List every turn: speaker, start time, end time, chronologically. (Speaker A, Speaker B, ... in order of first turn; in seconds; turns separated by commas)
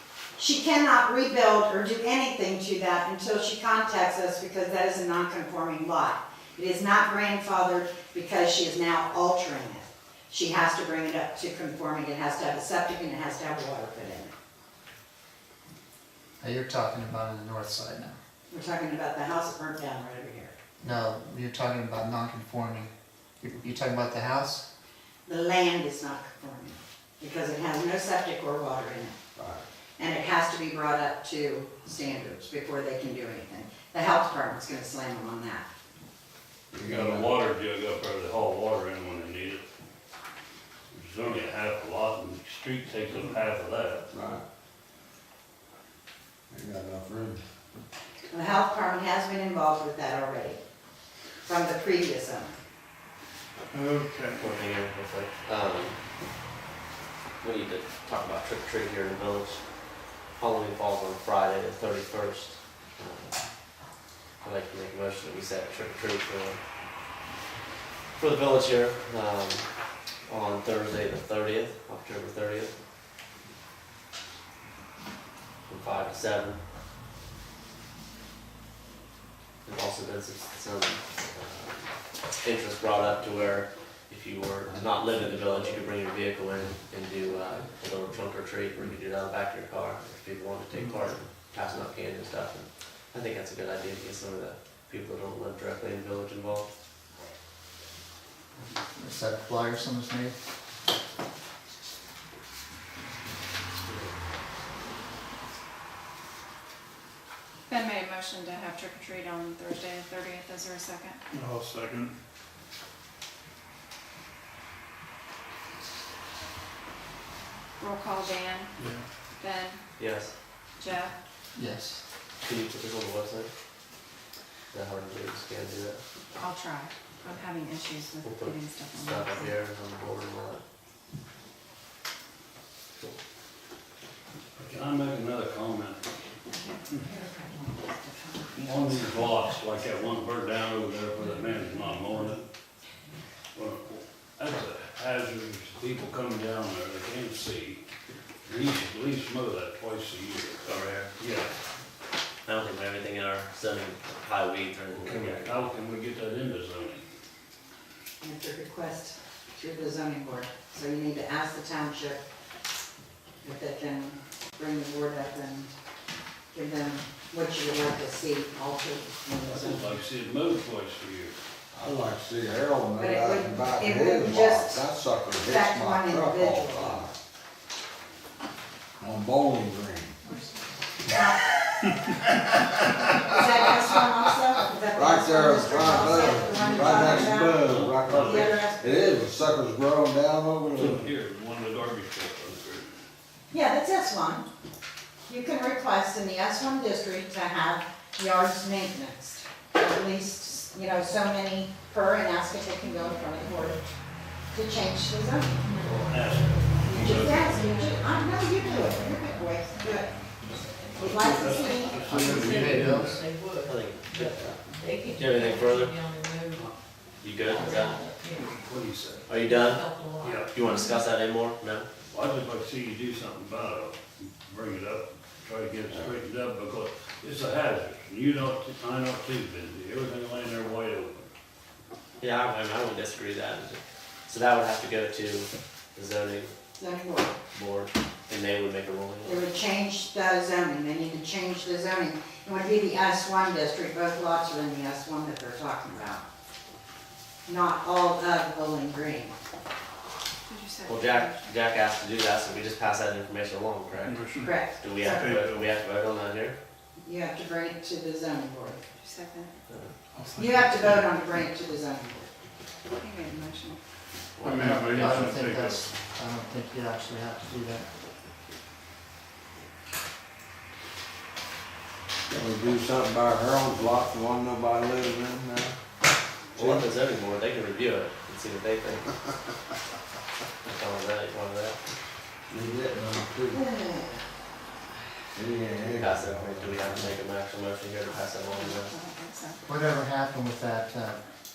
Speaker A: 0.4-14.3, Speaker B: 16.4-18.2, Speaker A: 18.5-20.5, Speaker B: 20.8-24.6, Speaker A: 25.3-29.2, Speaker C: 29.4-29.6, Speaker A: 30.0-35.6, Speaker C: 36.7-37.3, Speaker D: 36.8-39.7, Speaker D: 40.9-44.1, Speaker C: 44.1-44.4, Speaker C: 46.5-47.4, Speaker A: 48.3-50.6, Speaker A: 51.5-52.6, Speaker E: 53.7-54.4, Speaker F: 54.4-56.0, Speaker F: 57.4-63.5, Speaker F: 64.4-66.6, Speaker F: 68.2-69.7, Speaker F: 70.3-72.8, Speaker F: 75.7-76.6, Speaker F: 79.7-96.7, Speaker E: 90.7-91.0, Speaker B: 99.0-100.4, Speaker G: 107.7-111.2, Speaker E: 111.3-112.1, Speaker G: 117.8-118.7, Speaker E: 118.8-119.1, Speaker G: 119.4-119.8, Speaker F: 120.0-120.3, Speaker G: 120.8-121.1, Speaker B: 121.5-122.0, Speaker F: 122.4-123.5, Speaker F: 124.7-126.0, Speaker G: 126.4-129.6, Speaker F: 128.2-130.6, Speaker D: 134.6-136.0, Speaker A: 136.9-138.6, Speaker D: 138.5-142.4, Speaker D: 143.5-147.8, Speaker D: 148.4-151.5, Speaker F: 150.7-151.1, Speaker F: 152.4-155.5, Speaker D: 154.9-157.1, Speaker A: 158.2-162.2, Speaker A: 163.4-165.7, Speaker A: 166.5-169.9, Speaker D: 169.5-171.4, Speaker C: 171.7-177.2, Speaker A: 173.0-174.8, Speaker A: 175.5-177.1, Speaker C: 179.0-180.2, Speaker G: 180.2-180.6, Speaker A: 181.1-181.6, Speaker A: 183.2-189.2, Speaker C: 184.9-191.1, Speaker D: 186.6-188.6, Speaker F: 188.1-188.5, Speaker D: 190.7-193.0, Speaker A: 193.5-194.5, Speaker A: 195.3-203.8, Speaker A: 204.5-205.6, Speaker G: 205.6-209.1, Speaker D: 205.7-208.0, Speaker A: 207.0-210.1, Speaker G: 209.7-210.0, Speaker D: 210.9-213.3, Speaker A: 211.0-212.1, Speaker H: 211.9-216.7, Speaker B: 212.1-213.2, Speaker F: 213.6-214.3, Speaker F: 215.1-216.0, Speaker F: 217.2-218.1, Speaker H: 217.5-218.5, Speaker D: 218.2-219.3, Speaker F: 219.3-221.9, Speaker H: 219.5-220.4, Speaker D: 220.1-220.5, Speaker G: 220.6-221.0, Speaker D: 222.1-231.3, Speaker F: 232.2-236.6, Speaker A: 236.8-237.3, Speaker F: 237.5-239.4, Speaker A: 239.2-246.2, Speaker A: 247.5-249.3, Speaker G: 250.5-251.6, Speaker F: 250.8-256.6, Speaker E: 254.0-255.7, Speaker A: 254.4-255.3, Speaker A: 257.0-258.8, Speaker G: 259.0-259.6, Speaker E: 260.1-261.0, Speaker A: 260.4-262.3, Speaker G: 262.9-263.8, Speaker F: 264.4-265.3, Speaker E: 264.4-265.8, Speaker B: 264.5-267.9, Speaker C: 272.3-275.8, Speaker F: 276.6-279.1, Speaker C: 276.6-276.9, Speaker F: 280.7-281.8, Speaker C: 282.5-283.7, Speaker A: 283.5-284.2, Speaker C: 285.4-287.1, Speaker F: 285.9-288.9, Speaker G: 288.0-289.6, Speaker B: 289.6-291.2